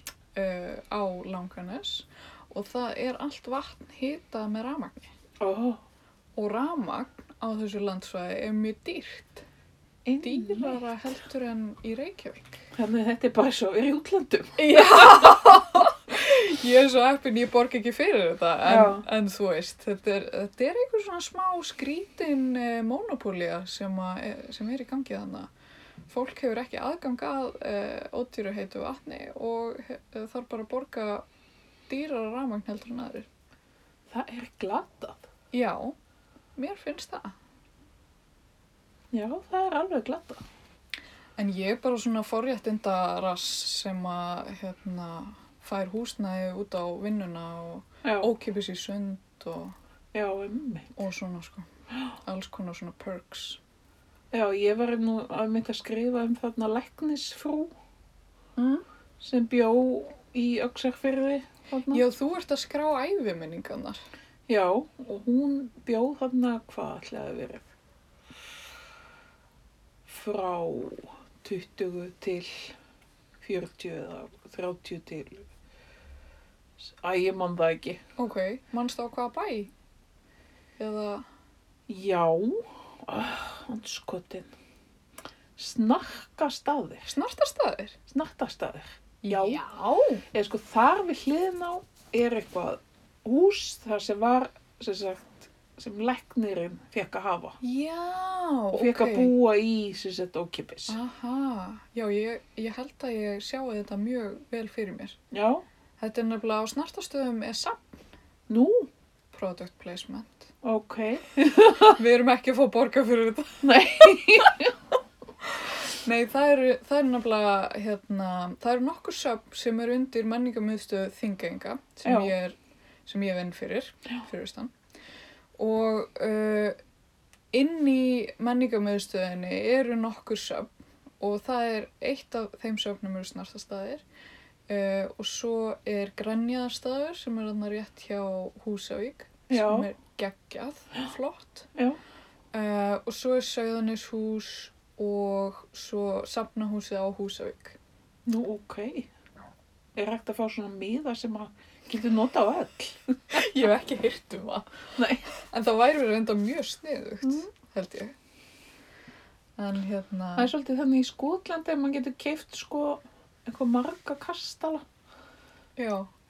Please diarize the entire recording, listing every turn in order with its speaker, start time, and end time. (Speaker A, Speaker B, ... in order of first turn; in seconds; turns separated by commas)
Speaker A: 0.3-5.1, Speaker B: 5.4-5.8, Speaker A: 6.3-9.4, Speaker B: 10.0-11.2, Speaker A: 10.2-12.6, Speaker B: 12.7-15.4, Speaker A: 14.6-25.5, Speaker B: 18.6-19.0, Speaker A: 26.1-31.2, Speaker A: 31.9-33.3, Speaker B: 34.1-35.3, Speaker A: 35.5-36.0, Speaker A: 36.5-37.3, Speaker B: 39.1-40.4, Speaker A: 41.4-49.7, Speaker B: 48.0-48.3, Speaker B: 50.1-51.0, Speaker A: 51.0-51.6, Speaker A: 52.2-53.6, Speaker B: 54.3-57.7, Speaker A: 58.6-58.8, Speaker B: 59.2-62.0, Speaker A: 61.9-64.0, Speaker B: 64.5-67.7, Speaker B: 70.0-72.7, Speaker B: 73.4-75.5, Speaker B: 76.8-78.0, Speaker A: 78.2-79.7, Speaker A: 80.8-81.2, Speaker B: 81.9-84.5, Speaker B: 85.5-87.1, Speaker A: 87.1-88.0, Speaker B: 88.1-89.6, Speaker A: 89.2-90.2, Speaker B: 90.3-97.6, Speaker A: 97.6-99.3, Speaker B: 98.7-101.0, Speaker A: 100.9-105.2, Speaker B: 105.3-105.6, Speaker A: 106.0-108.0, Speaker B: 108.5-108.9, Speaker A: 109.3-110.5, Speaker B: 110.6-112.0, Speaker A: 111.8-114.4, Speaker B: 113.6-114.7, Speaker A: 115.9-122.5, Speaker B: 122.0-122.3, Speaker A: 123.0-124.7, Speaker A: 125.6-126.8, Speaker A: 127.5-134.0, Speaker A: 134.7-141.7, Speaker B: 139.5-139.9, Speaker A: 142.5-147.8, Speaker B: 148.2-149.1, Speaker B: 149.9-153.4, Speaker A: 153.3-154.7, Speaker B: 155.0-155.2, Speaker A: 155.3-158.1, Speaker A: 159.6-160.5, Speaker B: 160.4-164.8, Speaker A: 165.8-166.1